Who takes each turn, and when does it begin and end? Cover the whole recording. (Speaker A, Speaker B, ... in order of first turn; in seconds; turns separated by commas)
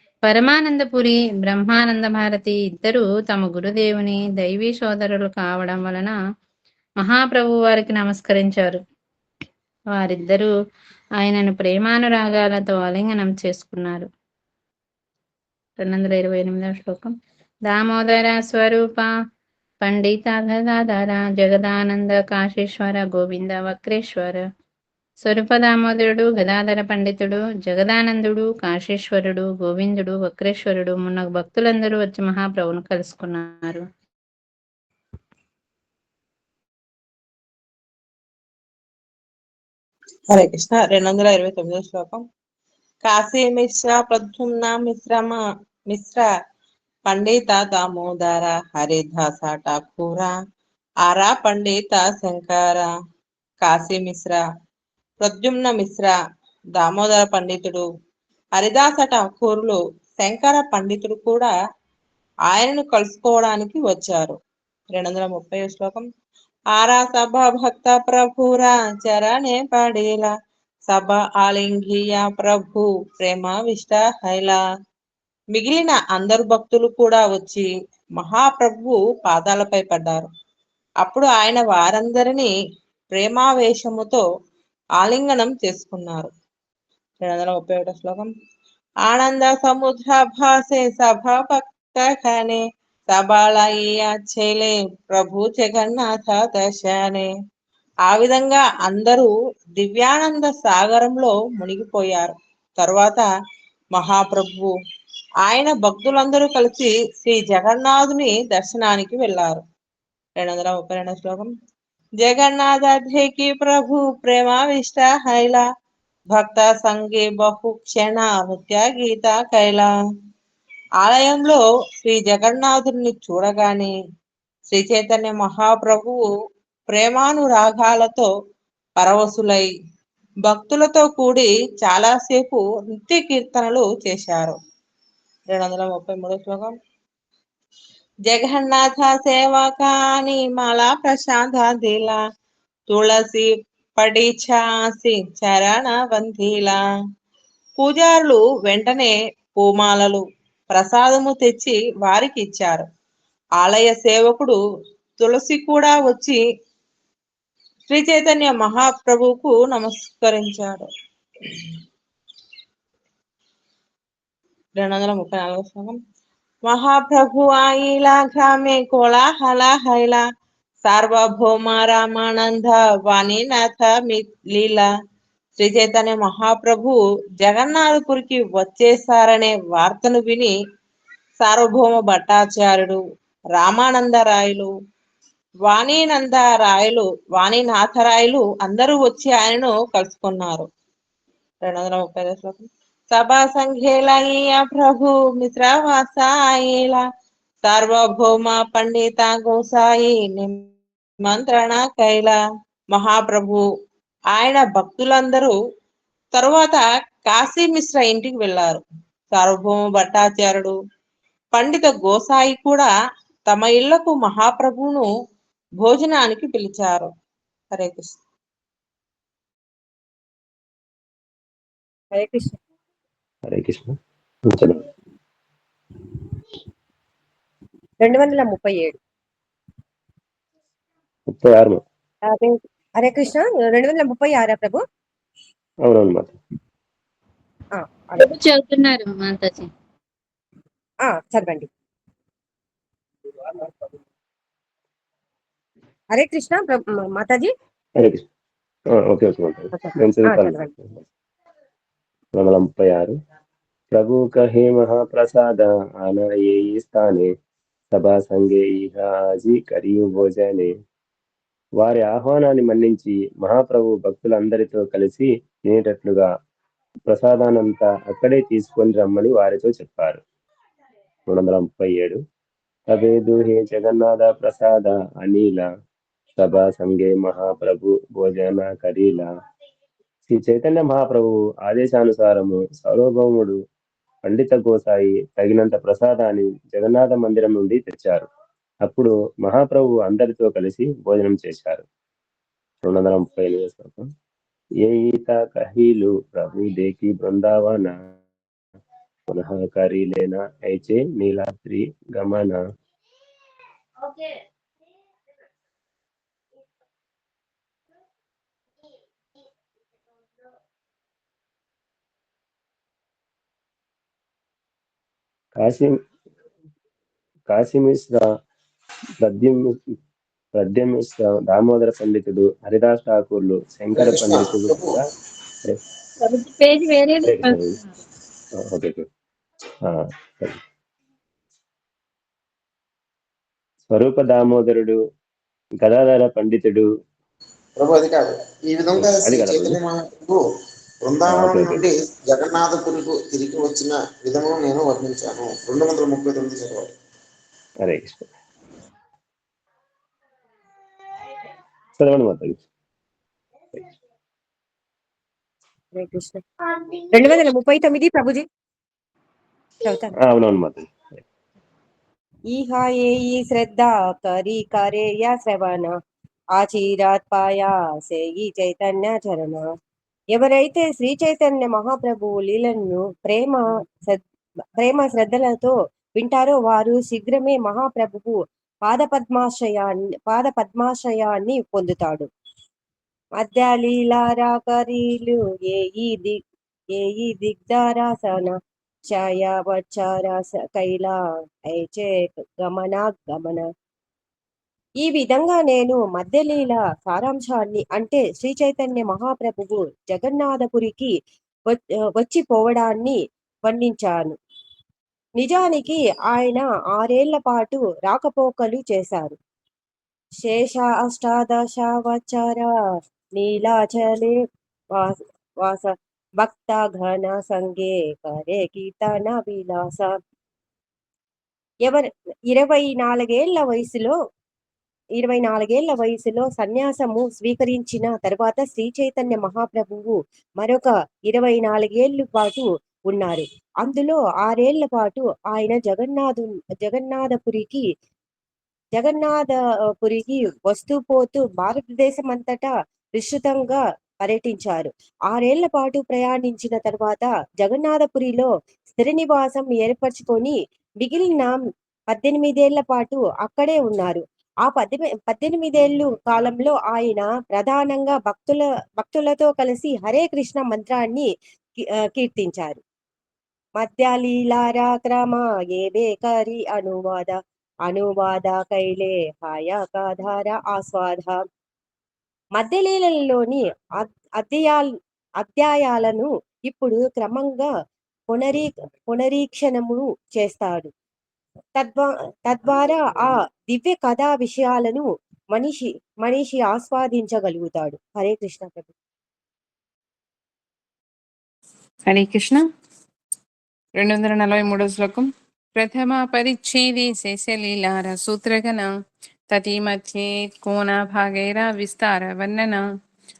Speaker A: 0.2-6.1, Speaker A: 7.0-8.8, Speaker A: 9.9-10.5, Speaker A: 11.2-14.1, Speaker A: 15.8-17.1, Speaker A: 17.7-19.1, Speaker A: 19.8-24.4, Speaker A: 25.2-33.9, Speaker B: 40.3-42.2, Speaker B: 43.0-46.3, Speaker B: 47.1-50.4, Speaker B: 51.0-52.9, Speaker B: 53.6-54.4, Speaker B: 55.2-56.1, Speaker B: 56.7-57.9, Speaker B: 58.5-61.5, Speaker B: 62.5-64.4, Speaker B: 64.9-66.0, Speaker B: 66.7-70.3, Speaker B: 70.9-74.6, Speaker B: 75.5-80.3, Speaker B: 81.0-82.5, Speaker B: 83.1-84.2, Speaker B: 85.0-86.3, Speaker B: 87.2-88.3, Speaker B: 89.0-97.3, Speaker B: 98.0-103.3, Speaker B: 103.9-104.7, Speaker B: 105.4-109.6, Speaker B: 110.4-111.5, Speaker B: 112.2-115.7, Speaker B: 116.3-119.9, Speaker B: 121.0-123.9, Speaker B: 124.7-126.3, Speaker B: 126.9-128.3, Speaker B: 129.0-129.7, Speaker B: 130.4-134.6, Speaker B: 135.5-136.7, Speaker B: 138.2-142.2, Speaker B: 142.9-146.8, Speaker B: 147.8-152.8, Speaker B: 153.6-154.6, Speaker B: 155.2-156.4, Speaker B: 157.9-160.9, Speaker B: 164.8-166.0, Speaker B: 166.6-170.2, Speaker B: 170.8-174.9, Speaker B: 175.6-180.5, Speaker B: 181.4-183.0, Speaker B: 183.5-184.7, Speaker B: 185.6-190.7, Speaker B: 191.6-197.0, Speaker B: 197.6-200.7, Speaker B: 201.2-202.4, Speaker B: 202.9-203.6, Speaker B: 204.3-205.5, Speaker B: 206.3-210.7, Speaker B: 211.5-212.9, Speaker B: 213.5-215.1, Speaker B: 215.8-217.1, Speaker B: 217.7-218.1, Speaker C: 222.1-222.6, Speaker D: 223.5-223.9, Speaker D: 224.5-224.8, Speaker C: 228.0-228.9, Speaker D: 231.3-231.8, Speaker C: 232.3-234.8, Speaker D: 235.8-236.3, Speaker C: 237.7-238.3, Speaker A: 238.2-239.7, Speaker C: 241.0-241.7, Speaker C: 246.1-247.5, Speaker D: 248.0-248.2, Speaker D: 248.9-251.0, Speaker C: 249.7-250.7, Speaker D: 252.3-253.1, Speaker D: 253.9-257.3, Speaker D: 257.9-260.7, Speaker D: 261.8-266.3, Speaker D: 267.1-270.2, Speaker D: 271.3-272.2, Speaker D: 272.9-275.7, Speaker D: 276.4-279.2, Speaker D: 280.3-283.6, Speaker D: 284.3-288.3, Speaker D: 288.8-291.8, Speaker D: 292.8-294.1, Speaker D: 294.8-297.9, Speaker D: 299.3-302.6, Speaker D: 315.6-315.9, Speaker D: 317.5-318.2, Speaker D: 319.2-319.7, Speaker D: 320.5-325.0, Speaker E: 323.9-325.0, Speaker A: 326.2-327.6, Speaker D: 327.2-327.8, Speaker D: 328.6-329.0, Speaker D: 329.8-330.6, Speaker D: 333.9-335.0, Speaker D: 335.8-336.8, Speaker E: 337.8-340.4, Speaker D: 338.9-339.8, Speaker E: 341.0-346.9, Speaker D: 341.3-341.8, Speaker D: 347.8-348.3, Speaker D: 352.0-352.6, Speaker C: 355.9-358.4, Speaker C: 359.8-360.1, Speaker D: 360.1-361.2, Speaker C: 362.5-366.0, Speaker C: 366.6-369.6, Speaker C: 370.3-374.2, Speaker C: 374.8-382.3, Speaker C: 383.4-386.4, Speaker C: 386.9-388.6, Speaker C: 389.1-391.1, Speaker C: 391.7-393.7, Speaker C: 395.0-401.1, Speaker C: 401.7-404.3, Speaker C: 405.4-409.4, Speaker C: 410.4-412.7, Speaker C: 413.4-414.3, Speaker C: 414.9-420.1, Speaker C: 421.8-424.1, Speaker C: 425.2-437.9, Speaker C: 438.9-451.6, Speaker C: 452.1-461.3, Speaker C: 461.8-462.8, Speaker C: 463.8-471.4, Speaker C: 472.6-474.9, Speaker C: 475.4-477.7, Speaker C: 478.3-480.9, Speaker C: 481.8-488.9, Speaker F: 492.1-492.6, Speaker F: 494.0-498.9, Speaker F: 499.5-502.8